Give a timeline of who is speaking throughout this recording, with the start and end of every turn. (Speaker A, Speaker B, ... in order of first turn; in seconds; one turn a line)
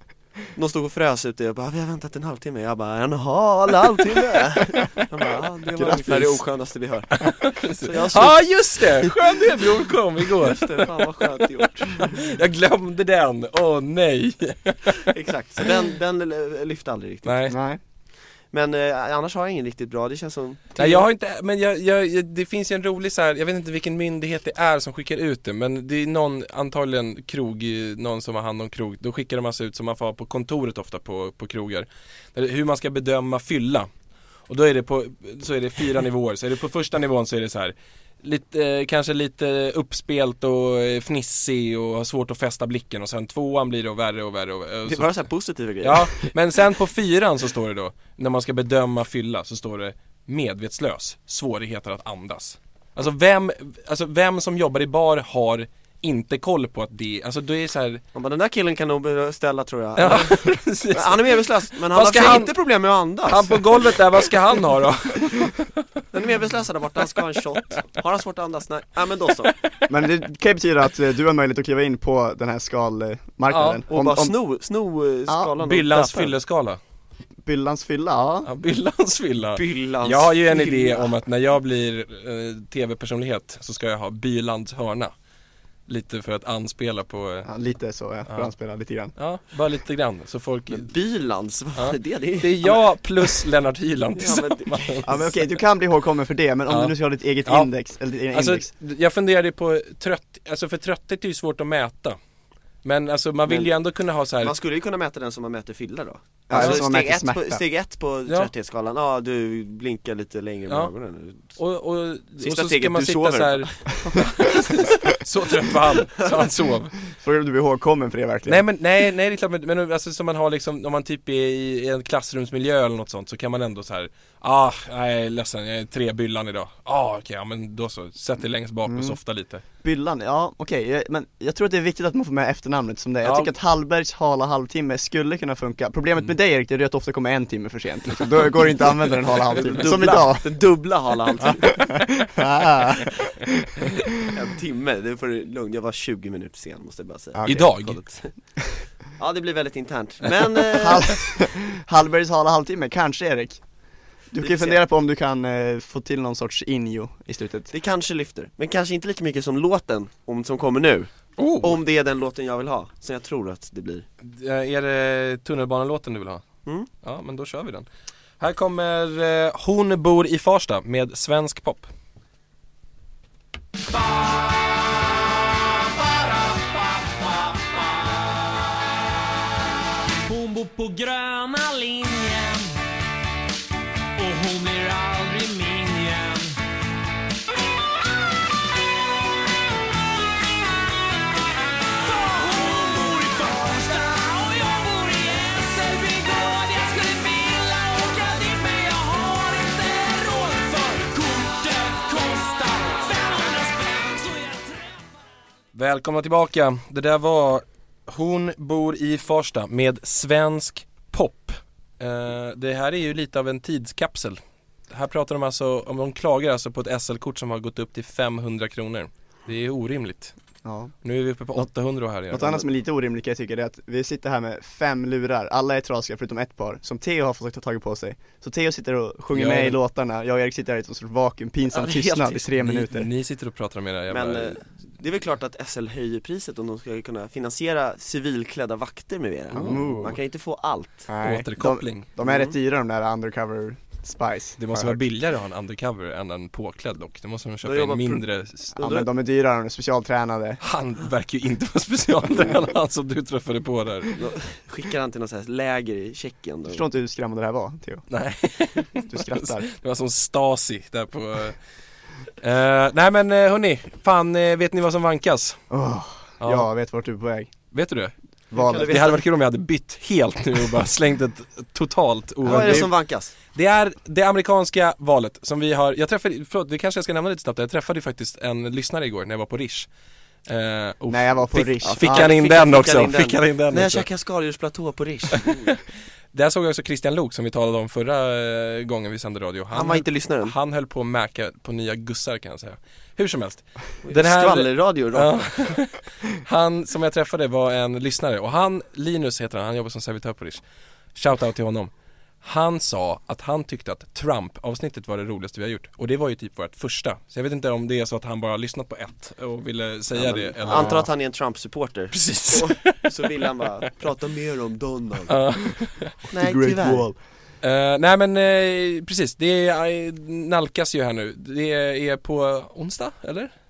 Speaker A: 0.6-9.2
Speaker B: 5.8-6.4
Speaker B: 7.1-11.3
Speaker A: 10.4-12.3
Speaker B: 11.9-15.1
Speaker A: 15.0-17.4
Speaker B: 17.2-17.6
Speaker C: 17.5-17.8
Speaker A: 18.5-21.1
Speaker B: 20.8-33.9
Speaker B: 34.5-45.1
Speaker A: 44.9-46.3
Speaker B: 45.8-58.0
Speaker A: 58.1-64.0
Speaker B: 60.0-62.5
Speaker B: 63.3-65.7
Speaker A: 66.1-69.5
Speaker C: 69.9-74.3
Speaker B: 73.5-73.8
Speaker A: 73.9-76.3
Speaker B: 75.6-76.8
Speaker C: 77.5-78.5
Speaker B: 78.5-85.1
Speaker A: 79.5-81.1
Speaker B: 85.9-87.5
Speaker C: 87.5-89.1
Speaker B: 89.2-90.9
Speaker A: 90.7-92.8
Speaker B: 91.8-95.5
Speaker A: 94.2-95.1
Speaker C: 95.1-98.7
Speaker B: 96.7-96.9
Speaker B: 97.5-97.7
Speaker B: 98.3-102.2
Speaker B: 102.8-104.5
Speaker A: 103.5-103.7
Speaker A: 104.4-111.6
Speaker C: 106.5-107.6
Speaker B: 106.5-106.8
Speaker B: 111.6-117.0
Speaker A: 112.4-115.0
Speaker C: 117.1-118.6
Speaker B: 118.5-129.6
Speaker C: 128.9-129.2
Speaker C: 129.8-140.5
Speaker B: 133.2-133.5
Speaker A: 139.5-141.8
Speaker C: 141.7-143.9
Speaker A: 144.3-148.3
Speaker C: 147.3-147.7
Speaker B: 147.4-148.2
Speaker A: 149.2-151.2
Speaker C: 150.7-153.6
Speaker C: 154.3-157.7
Speaker A: 154.4-154.8
Speaker A: 157.7-164.1
Speaker B: 161.4-161.8
Speaker B: 164.2-166.4
Speaker B: 167.0-167.9
Speaker B: 168.4-171.9
Speaker D: 173.9-178.1
Speaker D: 180.2-182.8
Speaker D: 184.2-186.6
Speaker D: 191.9-205.2
Speaker B: 205.7-214.4
Speaker B: 214.9-220.3
Speaker C: 220.6-220.9
Speaker B: 221.0-222.7
Speaker C: 222.3-233.1
Speaker B: 229.3-229.8
Speaker A: 231.7-232.4
Speaker B: 232.5-234.6
Speaker A: 234.1-241.1
Speaker B: 239.5-240.1
Speaker C: 239.5-240.2
Speaker C: 241.1-245.0
Speaker B: 241.2-242.1
Speaker A: 242.2-242.5
Speaker B: 244.6-248.8
Speaker A: 247.6-248.2
Speaker A: 248.8-249.1
Speaker C: 248.8-250.6
Speaker B: 250.6-254.2
Speaker A: 254.2-256.8
Speaker C: 256.7-258.1
Speaker B: 258.1-261.6
Speaker C: 259.1-259.7
Speaker B: 262.4-265.6
Speaker C: 265.7-267.5
Speaker B: 266.4-266.7
Speaker B: 267.7-268.1
Speaker C: 268.5-268.9
Speaker A: 268.5-269.2
Speaker B: 268.8-272.9
Speaker C: 272.4-272.9
Speaker A: 272.4-273.3
Speaker B: 273.5-279.9
Speaker B: 280.5-284.1
Speaker C: 281.1-282.3
Speaker A: 281.8-285.8
Speaker B: 286.3-300.6
Speaker A: 289.7-290.6
Speaker A: 294.0-295.8
Speaker B: 301.1-301.9
Speaker B: 302.4-311.1
Speaker A: 310.1-315.3
Speaker C: 310.6-311.1
Speaker B: 312.1-313.0
Speaker B: 315.3-316.1
Speaker A: 316.3-317.1
Speaker C: 316.3-317.2
Speaker B: 317.6-323.5